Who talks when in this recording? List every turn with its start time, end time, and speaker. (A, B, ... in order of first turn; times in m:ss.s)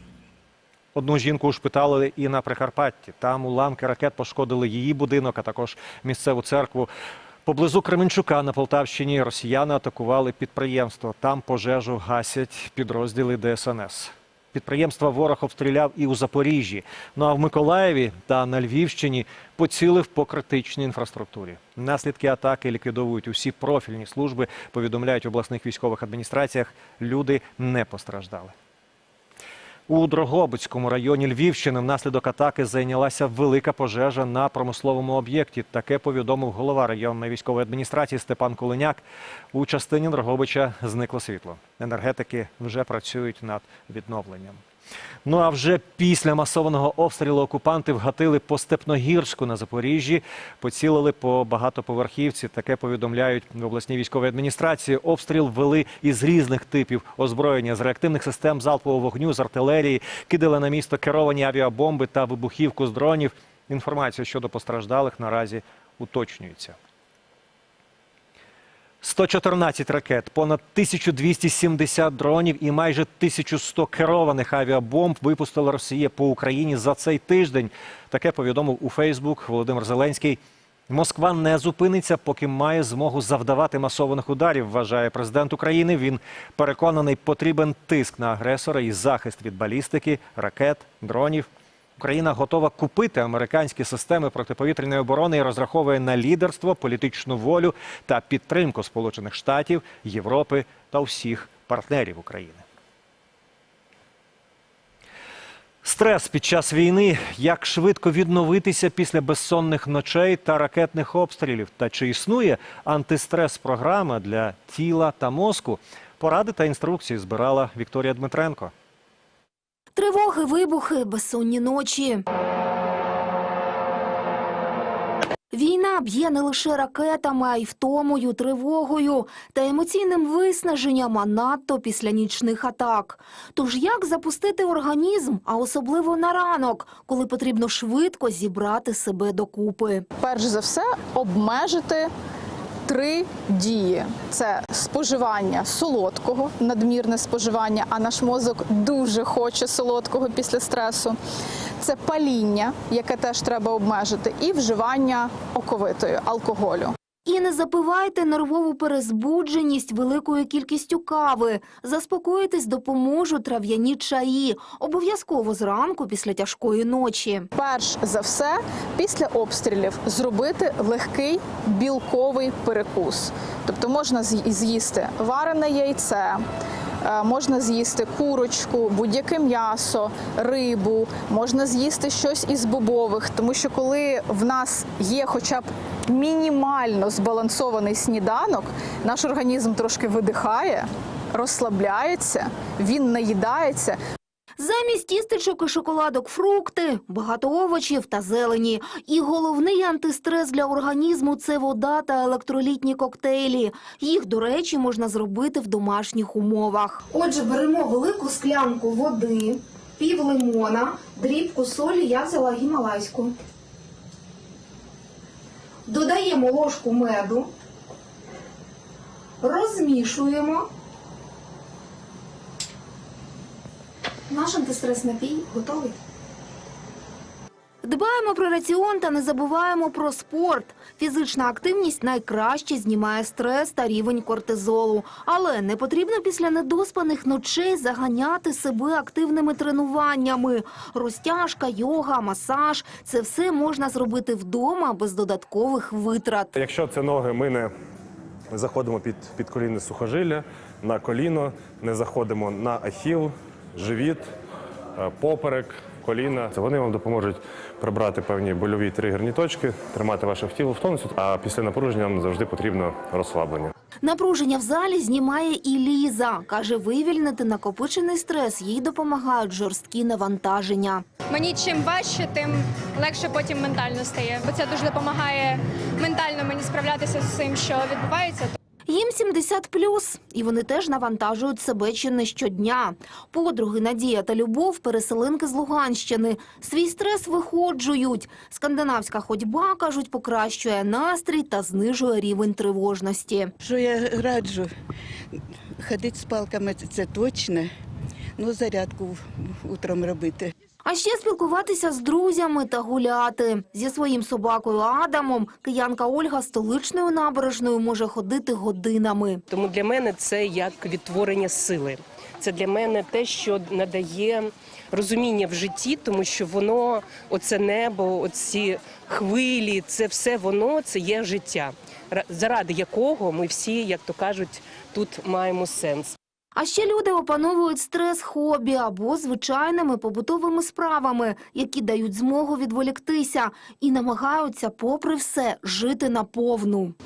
0:01.0-0:06.9 A
0:07.5-0:28.5 A
0:29.9-0:44.6 A
0:45.3-1:06.8 A
1:09.0-1:31.5 A
1:32.0-1:42.6 A
1:45.8-1:58.7 A
2:00.0-2:02.2 B
2:05.5-2:20.0 B
2:20.2-2:22.1 C
2:22.9-2:31.2 C
2:31.8-2:36.9 C
2:37.3-2:47.5 B
2:47.6-2:56.4 C
2:57.0-3:14.0 C
3:14.6-3:33.3 B
3:35.9-3:37.5 B
3:39.4-3:40.7 B
3:44.3-3:45.9 B
3:47.8-4:06.5 B
4:06.6-4:07.7 D
4:08.5-4:14.3 D
4:15.0-4:23.7 D
4:24.0-4:31.0 B
4:31.3-4:38.5 E
4:38.9-4:53.5 B
4:53.6-4:54.7 F
4:55.8-4:57.7 F
4:58.4-5:00.5 F
5:00.8-5:09.4 B
5:09.5-5:26.2 G
5:26.6-5:37.0 B